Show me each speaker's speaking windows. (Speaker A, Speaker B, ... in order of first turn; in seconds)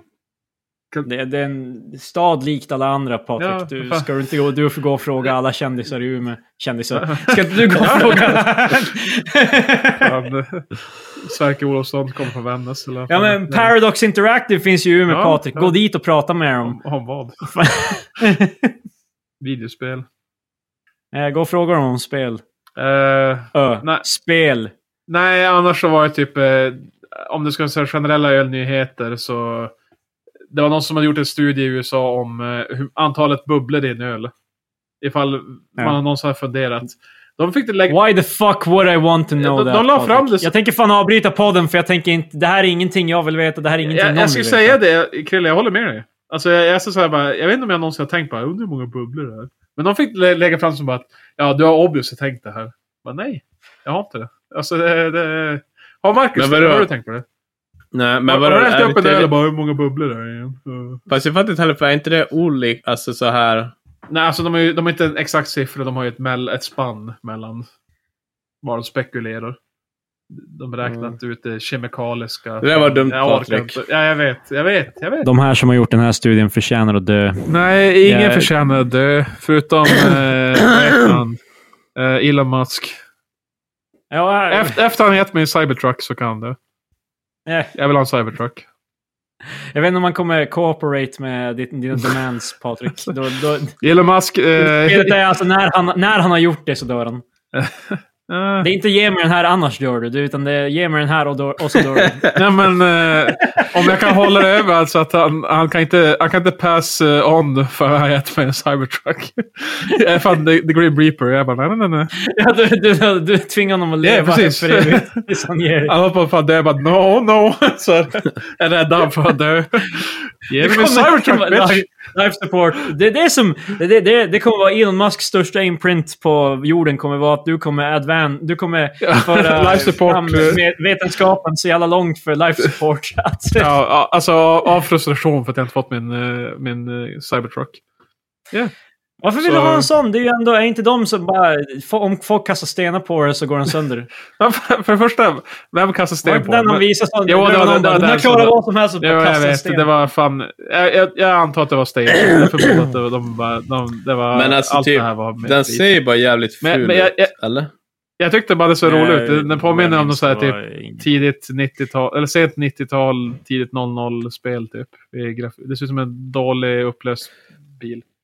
Speaker A: 1.1-10.1, 13.1-16.8, 17.5-18.7, 21.1-22.4, 23.5-24.7, 37.9-44.8, 75.2-77.5, 78.0-78.5, 84.1-84.8, 87.5-87.7, 89.7-93.8, 94.6-97.2, 98.6-102.3, 103.4-104.2, 112.2-115.9, 120.6-133.7, 139.2-144.1, 146.2-149.9, 158.8-161.1
Speaker B: 3.4-4.1, 7.0-8.5, 10.0-13.7, 15.1-15.7, 16.6-17.5, 19.4-20.1, 22.8-24.0, 25.1-29.7, 30.5-34.3, 35.0-38.0, 39.4-40.5, 43.8-57.2, 58.3-61.0, 64.1-67.7, 68.6-69.6, 70.3-75.3, 77.5-81.4, 82.0-83.0, 84.5-86.6, 87.8-88.7, 93.8-95.2, 97.5-98.7, 102.3-112.1, 114.0-115.2, 115.9-121.9, 129.0-130.6, 133.6-137.8, 139.4-139.9, 144.4-155.9, 156.6-157.3, 158.2-168.0
Speaker C: 56.4-56.9, 57.9-59.3, 61.1-63.7, 70.8-71.2, 72.6-73.8, 154.3-157.7